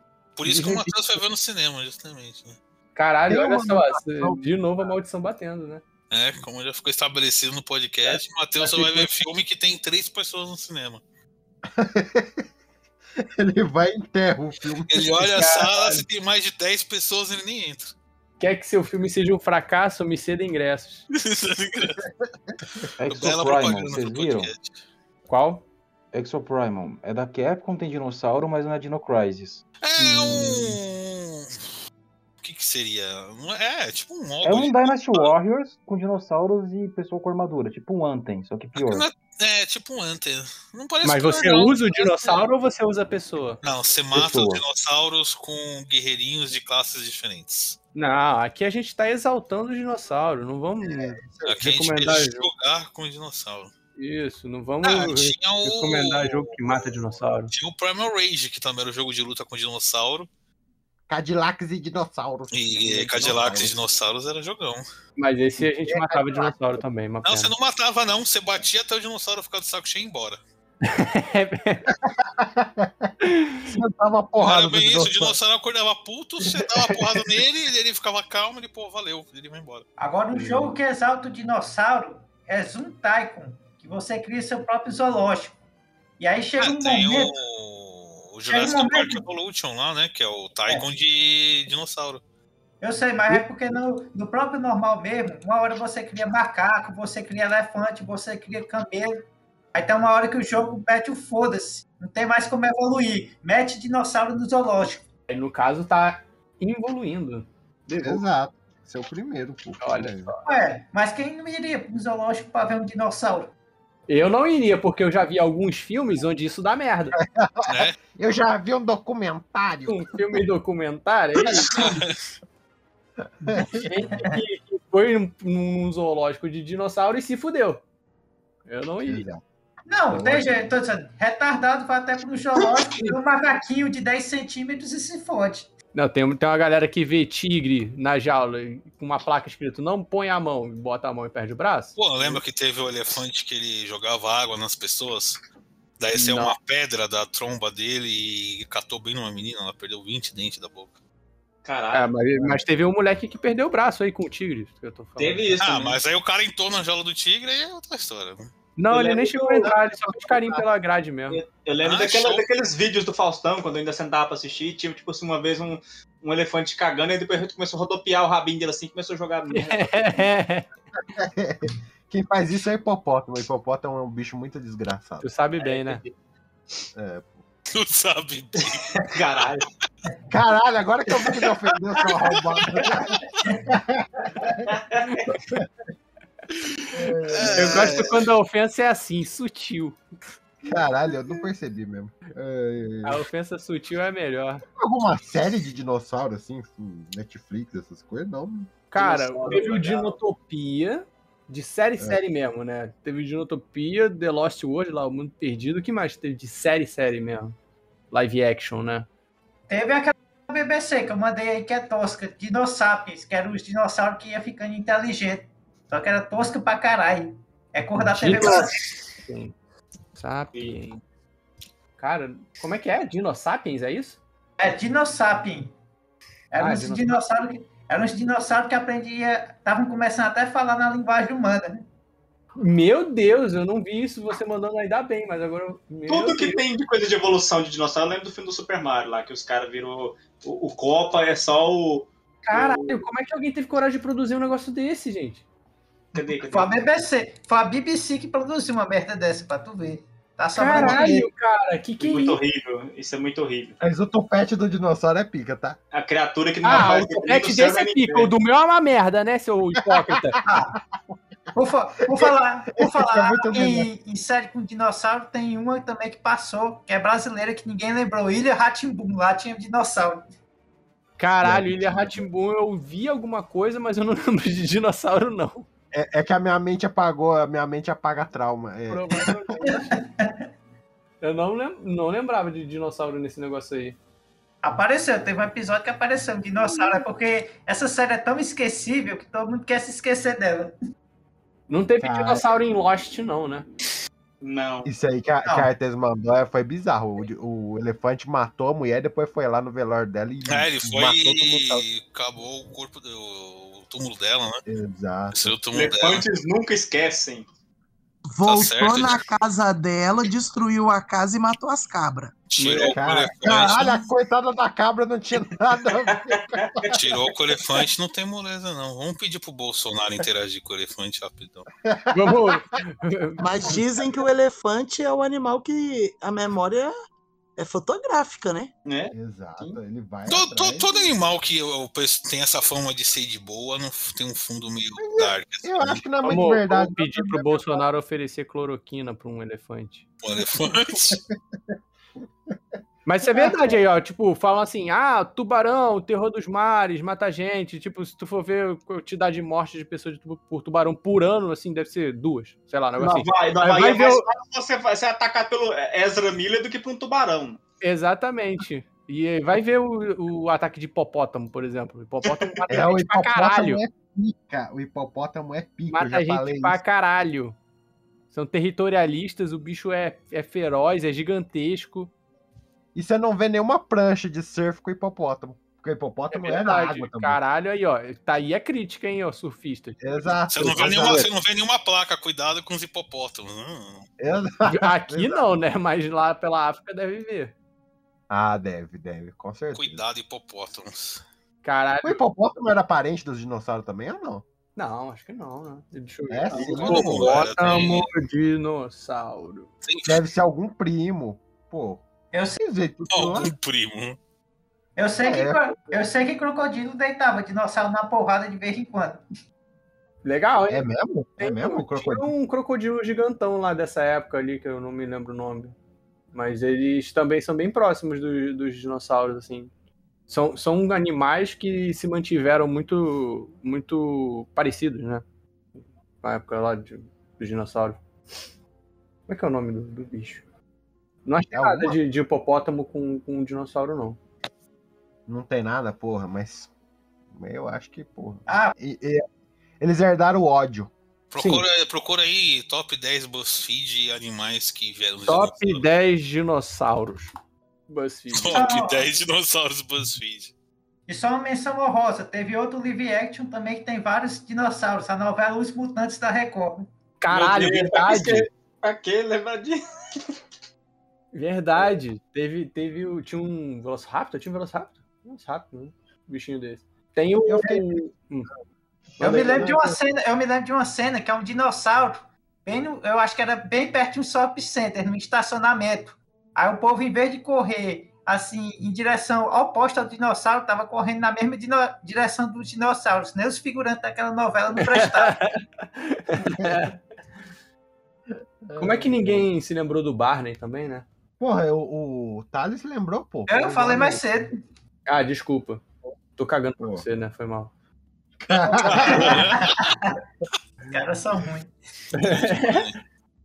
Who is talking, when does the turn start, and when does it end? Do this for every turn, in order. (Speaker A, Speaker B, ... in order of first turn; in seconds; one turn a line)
Speaker A: 0.4-2.6
Speaker B: 0.5-1.2
Speaker B: 3.0-5.8
Speaker C: 3.3-4.4
Speaker A: 6.1-11.0
Speaker B: 8.6-9.1
Speaker C: 11.7-12.4
Speaker C: 13.2-15.4
Speaker A: 14.9-17.9
Speaker B: 15.3-16.1
Speaker B: 18.4-21.1
Speaker A: 21.1-22.1
Speaker D: 23.0-24.5
Speaker A: 23.1-24.8
Speaker B: 25.3-25.6
Speaker D: 26.1-30.7
Speaker A: 29.8-31.6
Speaker A: 32.4-35.3
Speaker D: 34.4-39.1
Speaker A: 38.8-42.4
Speaker B: 41.0-43.6
Speaker A: 43.6-47.8
Speaker D: 44.1-44.6
Speaker B: 48.0-52.5
Speaker C: 50.9-51.6
Speaker A: 51.5-53.7
Speaker B: 54.0-57.5
Speaker A: 54.8-60.3
Speaker C: 61.1-63.7
Speaker A: 62.5-64.8
Speaker B: 65.2-67.5
Speaker C: 65.6-66.6
Speaker A: 67.2-70.4
Speaker B: 70.8-71.9
Speaker C: 72.0-73.1
Speaker B: 73.2-73.7
Speaker C: 73.7-75.4
Speaker A: 74.4-79.8
Speaker E: 80.0-85.6
Speaker B: 80.3-80.7
Speaker E: 86.2-87.3
Speaker A: 86.6-92.2
Speaker E: 88.5-89.2
Speaker E: 92.8-105.0
Speaker B: 105.3-108.2
Speaker C: 108.0-110.3
Speaker B: 109.8-110.4
Speaker E: 110.4-113.5
Speaker B: 114.1-117.2
Speaker C: 117.3-120.4
Speaker A: 117.7-118.0
Speaker B: 119.9-122.0
Speaker A: 121.7-122.2
Speaker B: 123.4-127.8
Speaker C: 123.5-123.9
Speaker E: 124.1-124.4
Speaker B: 128.7-129.2
Speaker C: 129.1-129.4
Speaker E: 129.9-135.7
Speaker C: 130.1-130.7
Speaker B: 135.9-142.4
Speaker A: 142.0-145.4
Speaker A: 146.0-150.9
Speaker B: 146.1-146.6
Speaker F: 151.7-152.6
Speaker B: 151.9-155.6
Speaker F: 155.2-156.0
Speaker A: 155.6-158.5
Speaker B: 158.8-161.4
Speaker F: 158.9-160.7
Speaker F: 161.3-170.1
Speaker A: 161.8-162.4
Speaker B: 169.5-170.7
Speaker C: 171.1-175.3
Speaker B: 175.2-176.0
Speaker F: 175.6-176.1
Speaker C: 176.9-177.4
Speaker A: 177.7-178.9
Speaker F: 178.6-179.7
Speaker C: 180.3-184.7
Speaker F: 184.7-185.1
Speaker C: 186.9-188.1
Speaker A: 187.3-188.2
Speaker B: 187.6-190.0
Speaker C: 190.6-193.2
Speaker B: 193.0-194.6
Speaker C: 194.8-198.7
Speaker B: 198.9-207.6
Speaker F: 198.9-200.2
Speaker B: 208.1-209.1
Speaker E: 209.7-218.8
Speaker B: 218.0-218.7
Speaker B: 219.2-219.5
Speaker B: 220.2-221.0
Speaker F: 220.6-220.8
Speaker B: 222.0-224.2
Speaker E: 224.6-225.7
Speaker E: 226.5-231.8
Speaker B: 226.6-227.1
Speaker B: 232.6-236.6
Speaker F: 236.1-243.0
Speaker B: 242.5-245.4
Speaker F: 246.1-246.8
Speaker E: 246.2-251.3
Speaker B: 250.6-252.4
Speaker F: 252.0-253.8
Speaker C: 253.8-255.8
Speaker F: 255.9-258.3
Speaker B: 256.6-260.4
Speaker C: 260.0-260.6
Speaker E: 260.4-260.7
Speaker E: 261.5-270.2
Speaker C: 262.1-263.9
Speaker B: 271.2-275.7
Speaker C: 271.4-272.2
Speaker C: 275.9-279.4
Speaker B: 278.9-280.0
Speaker E: 279.8-280.4
Speaker B: 281.2-284.0
Speaker E: 284.6-290.8
Speaker B: 291.7-293.7
Speaker C: 292.0-292.4
Speaker F: 294.4-294.9
Speaker C: 294.9-301.9
Speaker A: 300.5-304.6
Speaker C: 304.7-305.5
Speaker A: 305.3-306.2
Speaker F: 305.7-307.5
Speaker G: 308.3-312.3
Speaker A: 308.4-309.3
Speaker A: 312.5-314.1
Speaker B: 312.6-312.9
Speaker C: 312.9-317.0
Speaker F: 316.4-316.9
Speaker A: 316.9-321.7
Speaker C: 321.9-322.6
Speaker B: 322.1-323.4
Speaker G: 323.4-326.9
Speaker G: 327.6-328.7
Speaker F: 328.9-329.8
Speaker C: 329.1-330.9
Speaker A: 330.3-336.0
Speaker C: 335.0-337.8
Speaker B: 336.2-340.1
Speaker A: 340.2-341.2
Speaker B: 343.1-354.3
Speaker C: 343.3-343.8
Speaker F: 353.0-357.6
Speaker B: 357.8-363.8
Speaker C: 362.7-366.8
Speaker B: 365.9-367.6
Speaker B: 368.3-372.1
Speaker C: 372.9-377.4
Speaker B: 376.3-381.3
Speaker C: 380.0-381.3
Speaker A: 380.5-384.1
Speaker C: 384.2-385.5
Speaker B: 384.6-387.5
Speaker C: 388.3-390.0
Speaker A: 389.7-391.2
Speaker B: 391.6-392.2
Speaker C: 392.0-394.4
Speaker B: 394.8-399.7
Speaker C: 396.3-397.4
Speaker A: 396.6-398.1
Speaker A: 399.9-400.2
Speaker C: 400.1-402.0
Speaker E: 402.3-402.6
Speaker C: 402.6-403.5
Speaker A: 403.1-404.2
Speaker E: 405.0-409.2
Speaker C: 405.2-405.6
Speaker B: 410.2-410.9
Speaker C: 410.7-412.3
Speaker B: 411.4-415.8
Speaker B: 416.3-419.7
Speaker B: 420.3-425.2
Speaker B: 426.2-428.0
Speaker B: 429.3-430.4
Speaker B: 431.2-434.2
Speaker C: 431.5-432.0
Speaker C: 435.3-436.7
Speaker C: 437.3-439.2
Speaker E: 438.5-438.8
Speaker C: 439.8-440.9
Speaker A: 441.3-445.9
Speaker B: 441.4-441.6
Speaker B: 445.3-447.3
Speaker B: 447.9-448.6
Speaker A: 448.3-450.5
Speaker E: 448.5-449.1
Speaker E: 451.1-456.9
Speaker B: 457.2-458.5
Speaker F: 457.3-460.3
Speaker B: 461.3-468.5
Speaker C: 467.4-467.9
Speaker C: 469.2-469.9
Speaker B: 469.2-469.9
Speaker E: 469.2-485.4
Speaker B: 484.8-486.9
Speaker C: 486.4-486.9
Speaker C: 488.6-489.5
Speaker B: 488.8-491.1
Speaker C: 491.4-494.2
Speaker E: 493.5-494.6
Speaker B: 495.1-495.8
Speaker B: 496.4-497.7
Speaker C: 496.8-497.1
Speaker C: 498.4-499.5
Speaker A: 498.5-499.8
Speaker E: 499.0-500.1
Speaker E: 500.9-501.7
Speaker B: 502.1-502.9
Speaker A: 502.1-503.0